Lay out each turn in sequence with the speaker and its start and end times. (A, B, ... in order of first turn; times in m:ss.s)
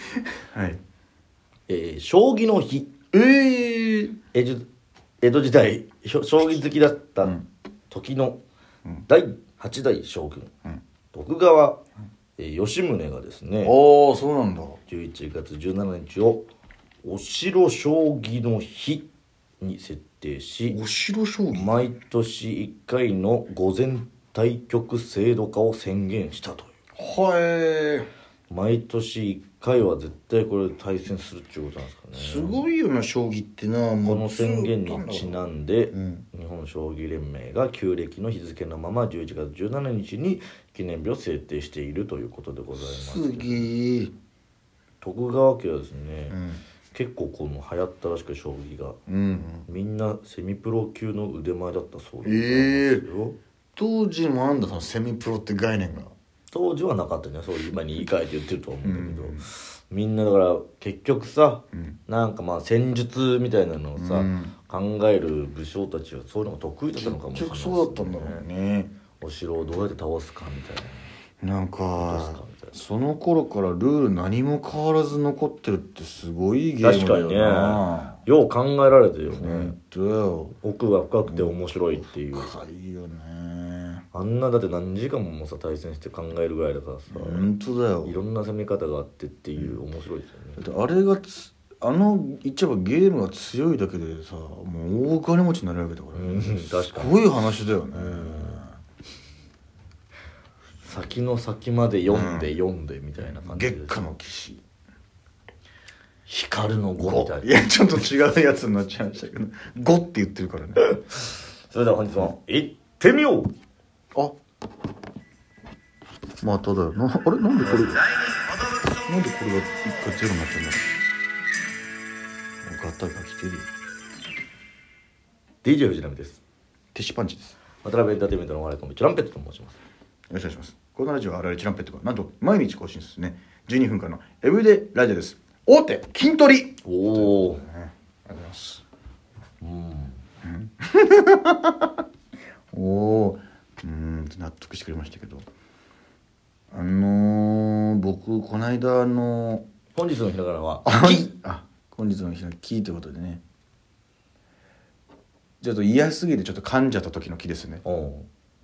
0:00.5-0:00.8 A
0:01.7-0:03.0 B
0:03.1-0:04.2 A
0:04.3-0:04.6 B
0:05.2-0:07.3 B
0:07.9-0:08.4 B
0:09.1-0:10.5 B
0:11.1-0:11.8 B
0:12.4-0:13.7 B
0:13.6-0:14.8 A
0:14.9-0:16.4 B
0:17.0-0:19.1 B
0:19.6-0:20.8 B
0:20.7-0:21.7 A
0:21.5-0:26.7 B
0:27.0-0:28.1 A
0:28.5-0:32.6 B
0:32.1-0:36.2 A
0:34.0-0:43.7 B
0:42.8-0:44.1 A
0:45.0-0:46.4 B
0:46.3-0:46.6 A
0:46.9-0:49.0 B
0:49.1-0:49.7 A
0:49.7-0:53.4 B
0:52.2-0:53.0 A
0:53.8-0:56.1 A
0:56.5-1:08.4 B
0:58.8-0:59.5 A
1:04.0-1:04.5 A
1:07.0-1:08.9 A
1:09.2-1:11.1 B
1:11.4-1:18.2 A
1:12.0-1:12.7 B
1:16.8-1:19.7 B
1:19.3-1:20.6 A
1:20.6-1:22.6 B
1:21.2-1:24.0 A
1:24.1-1:27.4 B
1:27.1-1:28.2 A
1:28.0-1:30.6 B
1:30.6-1:38.8 A
1:36.1-1:37.2 B
1:37.9-1:38.6 B
1:40.8-1:44.0 B
1:42.1-1:42.5 A
1:43.2-1:44.6 A
1:46.3-1:47.5 B
1:47.0-1:50.9 A
1:51.7-1:53.5 B
1:56.4-1:58.1 A
1:59.0-2:01.0 A
2:02.6-2:03.7 A
2:05.6-2:06.4 B
2:06.9-2:07.5 A
2:07.8-2:09.8 B
2:10.3-2:18.8 A
2:16.8-2:17.6 B
2:19.6-2:20.2 B
2:20.4-2:21.9 A
2:22.7-2:25.4 A
2:26.7-2:29.6 A
2:29.9-2:31.3 B
2:30.8-2:33.4 A
2:35.6-2:37.8 A
2:37.8-2:38.2 B